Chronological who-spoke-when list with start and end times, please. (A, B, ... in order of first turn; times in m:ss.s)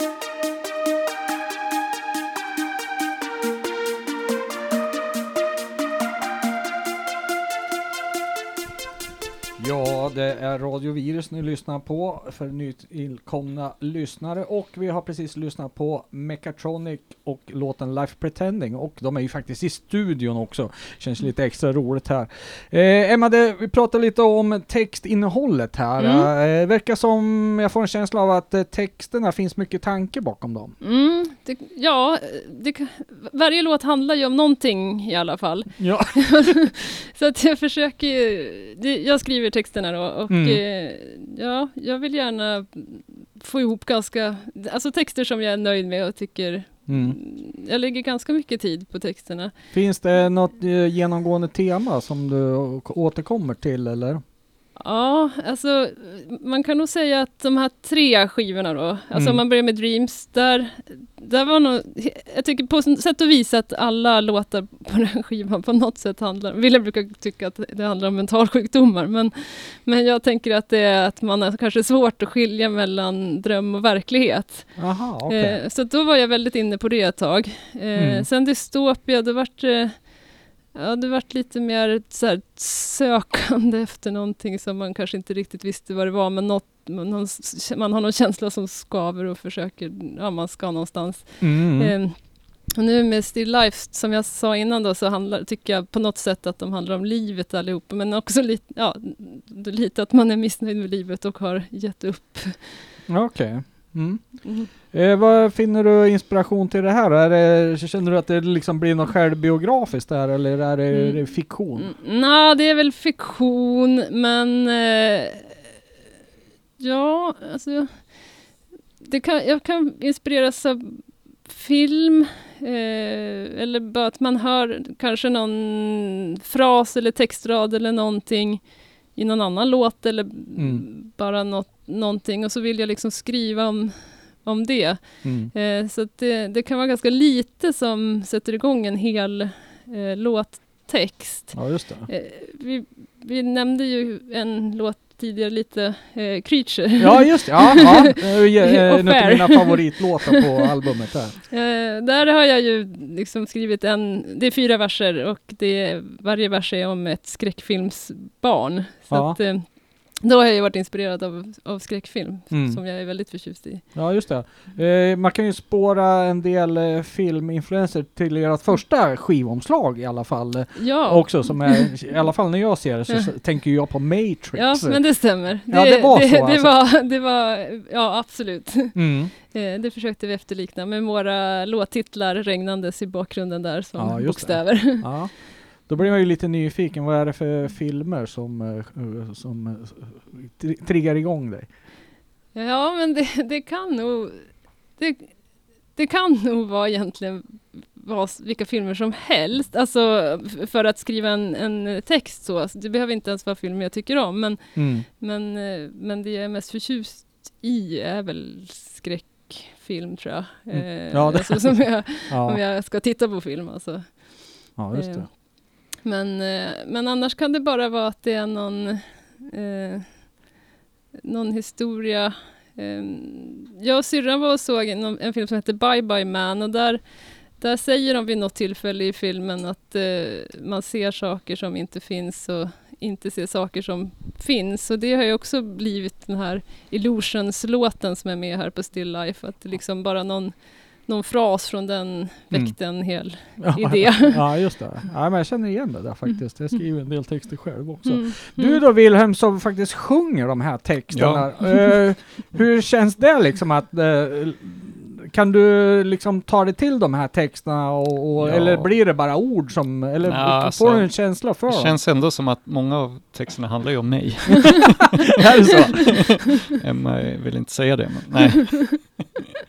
0:09.6-0:30.7 A
0:26.0-0:26.3 B
0:30.8-0:49.5 B
0:35.8-0:36.6 A
0:40.3-0:40.6 A
0:46.9-0:47.2 A
0:49.7-0:54.2 A
0:54.8-1:42.9 B
0:59.1-0:59.4 A
1:14.8-1:15.6 A
1:17.9-1:18.2 A
1:31.4-1:31.9 A
1:43.1-1:51.9 A
1:50.9-1:51.2 B
1:51.8-1:55.6 B
1:56.8-1:58.3 B
1:59.0-2:30.4 B
2:10.6-2:10.8 A
2:15.2-2:15.5 A
2:21.5-2:22.1 A
2:27.0-2:31.4 A
2:31.5-2:43.8 B
2:39.1-2:39.4 A
2:42.5-2:42.8 A
2:43.9-2:56.8 A
2:50.8-2:52.0 B
2:54.5-3:05.1 B
2:58.9-2:59.3 A
3:04.0-3:11.7 A
3:12.5-3:40.3 B
3:24.8-3:25.0 A
3:30.7-3:32.6 A
3:34.8-3:35.3 A
3:41.2-3:47.0 B
3:47.6-4:04.6 B
4:02.5-4:22.0 A
4:08.0-4:08.8 B
4:11.1-4:11.8 C
4:18.4-4:18.9 C
4:20.2-4:29.3 C
4:25.3-4:26.4 A